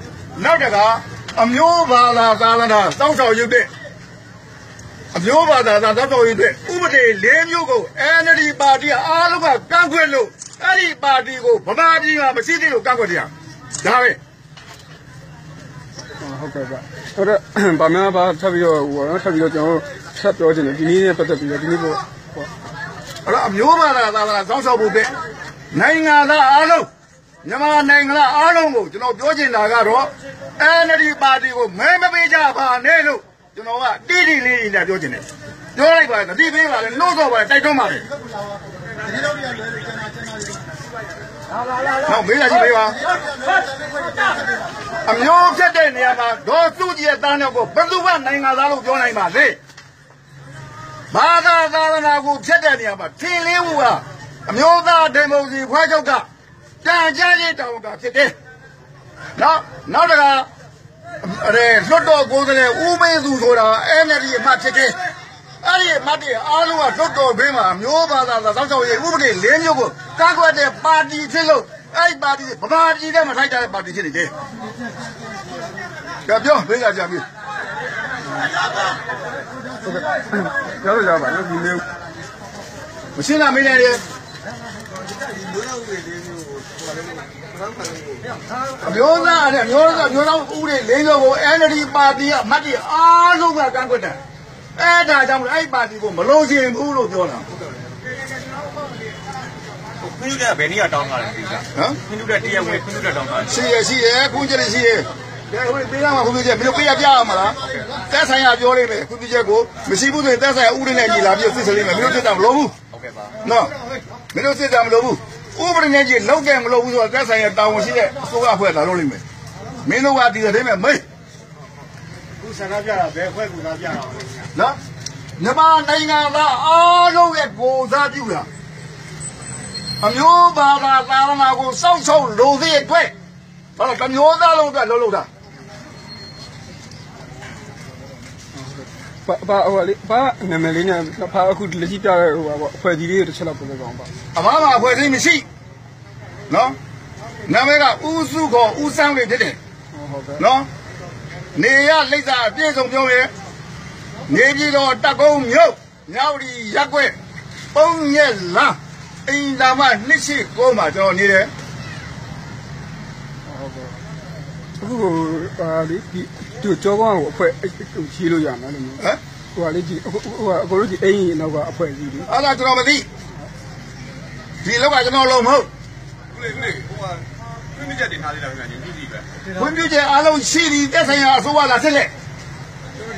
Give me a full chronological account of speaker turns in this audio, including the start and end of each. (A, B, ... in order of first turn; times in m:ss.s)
0:00.4-0:03.7 A
0:05.1-0:13.3 A
0:13.8-0:14.2 A
0:16.2-0:22.5 B
0:23.2-0:25.1 A
0:25.7-0:26.9 A
0:27.4-0:35.2 A
0:35.8-0:38.0 A
0:42.0-0:43.0 A
0:45.0-0:49.6 A
0:51.1-0:56.2 A
0:56.8-0:58.3 A
0:59.4-1:00.5 A
1:01.2-1:05.0 A
1:05.6-1:14.3 A
1:16.2-1:17.2 A
1:19.8-1:21.8 B
1:23.2-1:24.0 A
1:28.8-1:34.2 A
1:34.8-1:37.5 A
1:40.0-1:43.5 C
1:41.7-1:42.0 A
1:43.4-1:47.6 A
1:48.1-1:52.7 A
1:52.9-1:53.3 C
1:53.4-1:53.7 A
1:54.3-1:59.2 A
1:59.8-2:01.0 A
2:02.4-2:04.4 C
2:05.4-2:08.5 A
2:10.0-2:13.1 A
2:13.8-2:15.3 A
2:19.2-2:24.1 B
2:24.3-2:25.4 A
2:26.5-2:26.8 A
2:27.5-2:29.6 A
2:30.0-2:30.4 B
2:30.4-2:30.7 A
2:31.6-2:33.3 A
2:34.3-2:37.1 A
2:37.7-2:41.5 A
2:43.5-2:44.0 B
2:44.8-2:49.0 B
2:49.6-2:52.3 B
2:52.3-2:53.0 A
2:54.6-2:55.7 A
2:56.4-2:57.2 C
2:57.7-2:59.2 C
2:59.5-3:02.1 A